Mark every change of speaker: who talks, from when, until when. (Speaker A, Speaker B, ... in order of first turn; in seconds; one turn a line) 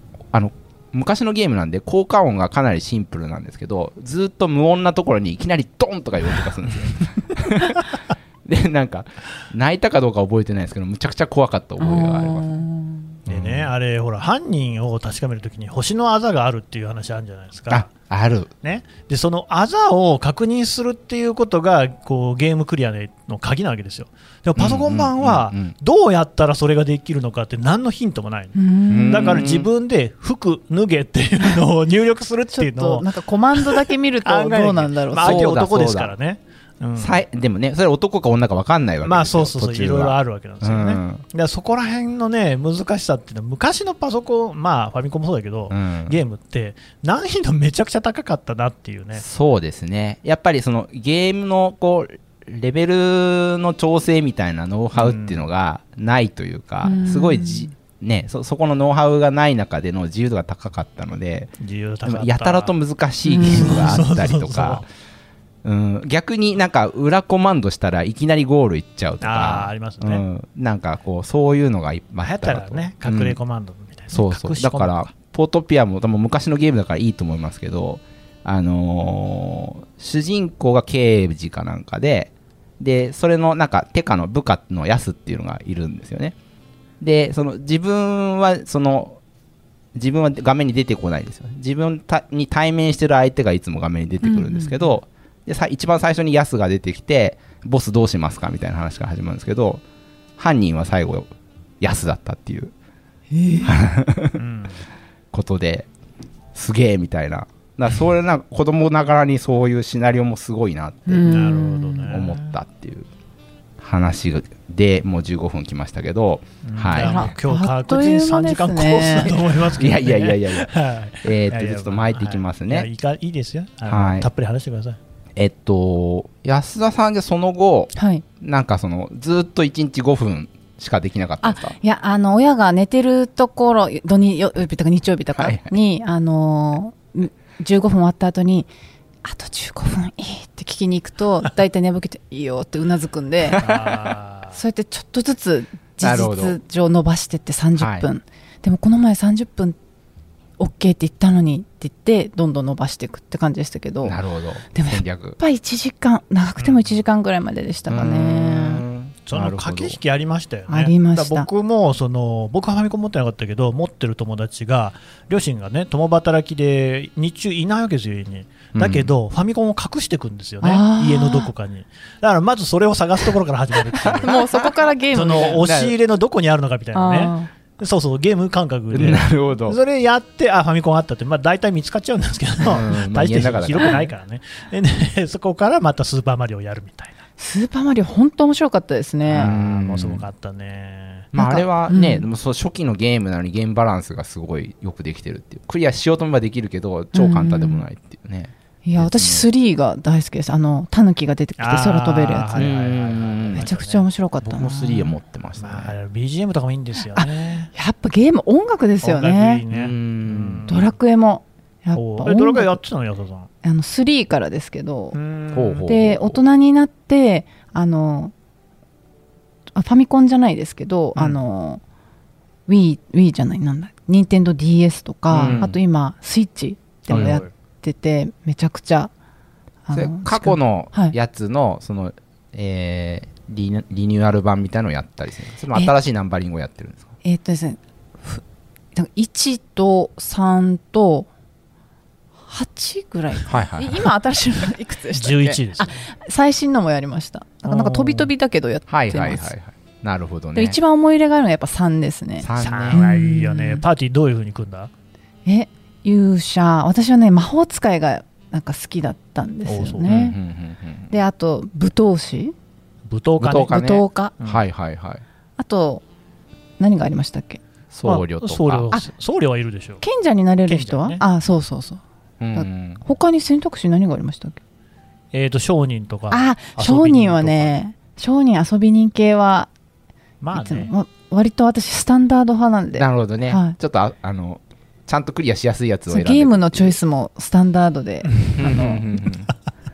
Speaker A: 0.3-12.5
Speaker B: 11.8-13.2
Speaker A: 13.3-13.7
Speaker C: 13.3-17.9
Speaker A: 17.7-18.5
Speaker C: 18.6-37.2
Speaker A: 24.6-25.7
Speaker B: 28.6-29.4
Speaker A: 28.9-29.7
Speaker B: 32.5-35.4
Speaker A: 35.2-36.1
Speaker A: 37.0-41.2
Speaker C: 39.0-49.2
Speaker A: 45.7-46.2
Speaker A: 49.2-61.5
Speaker C: 54.9-55.4
Speaker B: 56.8-57.7
Speaker C: 61.6-62.7
Speaker A: 62.0-64.8
Speaker B: 63.2-64.0
Speaker C: 63.4-64.8
Speaker A: 65.6-73.4
Speaker C: 69.2-70.2
Speaker C: 72.2-75.1
Speaker A: 74.1-86.3
Speaker A: 87.0-89.2
Speaker A: 90.0-99.8
Speaker B: 94.2-94.9
Speaker A: 100.4-102.7
Speaker B: 103.3-103.8
Speaker A: 103.6-104.4
Speaker C: 104.4-104.8
Speaker A: 105.3-105.9
Speaker A: 106.5-111.4
Speaker B: 111.1-112.1
Speaker C: 111.2-112.6
Speaker A: 112.1-113.1
Speaker A: 113.8-117.3
Speaker C: 116.6-125.0
Speaker B: 116.9-119.5
Speaker A: 119.8-122.9
Speaker A: 123.9-124.3
Speaker A: 125.4-131.8
Speaker B: 128.0-128.2
Speaker B: 131.4-138.7
Speaker A: 135.4-135.7
Speaker B: 139.2-143.6
Speaker A: 143.6-144.1
Speaker C: 143.6-144.6
Speaker B: 144.5-149.8
Speaker A: 146.0-146.6
Speaker A: 147.8-148.1
Speaker B: 150.6-154.2
Speaker A: 154.0-155.4
Speaker B: 154.7-158.8
Speaker C: 156.6-157.0
Speaker A: 157.9-160.0
Speaker C: 159.3-174.4
Speaker B: 160.7-161.5
Speaker A: 168.8-169.1
Speaker B: 170.6-171.5
Speaker A: 174.2-174.7
Speaker B: 174.2-175.6
Speaker C: 175.1-187.2
Speaker A: 175.4-175.9
Speaker B: 176.9-177.5
Speaker A: 178.9-179.8
Speaker A: 182.6-184.1
Speaker B: 187.4-189.5
Speaker C: 189.3-191.3
Speaker A: 189.4-190.3
Speaker A: 191.3-199.5
Speaker B: 191.3-192.3
Speaker B: 197.1-197.8
Speaker B: 198.8-202.7
Speaker C: 201.6-204.1
Speaker A: 202.6-203.7
Speaker B: 203.5-205.2
Speaker A: 204.4-205.9
Speaker C: 205.6-207.7
Speaker B: 207.2-209.6
Speaker C: 209.0-210.9
Speaker A: 209.7-210.7
Speaker B: 210.7-212.8
Speaker C: 211.9-213.5
Speaker B: 213.6-215.2
Speaker C: 215.1-215.9
Speaker A: 215.5-216.4
Speaker B: 215.8-218.3
Speaker B: 219.7-221.8
Speaker B: 222.7-229.1
Speaker A: 225.3-225.8
Speaker C: 227.1-227.5
Speaker A: 227.1-227.4
Speaker B: 229.9-231.2
Speaker A: 229.9-237.1
Speaker B: 237.2-238.4
Speaker B: 238.9-241.3
Speaker B: 242.5-249.5
Speaker A: 243.5-244.1
Speaker C: 245.1-246.0
Speaker C: 247.7-248.3
Speaker A: 248.9-250.8
Speaker B: 250.6-253.8
Speaker A: 252.4-253.0
Speaker C: 252.6-254.9
Speaker B: 255.4-260.4
Speaker C: 259.7-260.1
Speaker A: 260.1-261.1
Speaker B: 261.1-262.5
Speaker C: 263.1-263.8
Speaker A: 263.4-265.2
Speaker B: 263.7-264.4
Speaker B: 265.6-266.0
Speaker B: 266.8-267.6
Speaker A: 267.9-268.9
Speaker C: 268.0-270.0
Speaker B: 270.0-272.0
Speaker C: 270.7-271.2
Speaker A: 272.4-273.0
Speaker B: 272.5-274.6
Speaker C: 275.3-277.8
Speaker B: 276.3-279.7
Speaker C: 280.4-280.9
Speaker B: 280.5-283.8
Speaker A: 283.0-287.0
Speaker B: 286.1-289.0
Speaker A: 288.5-289.5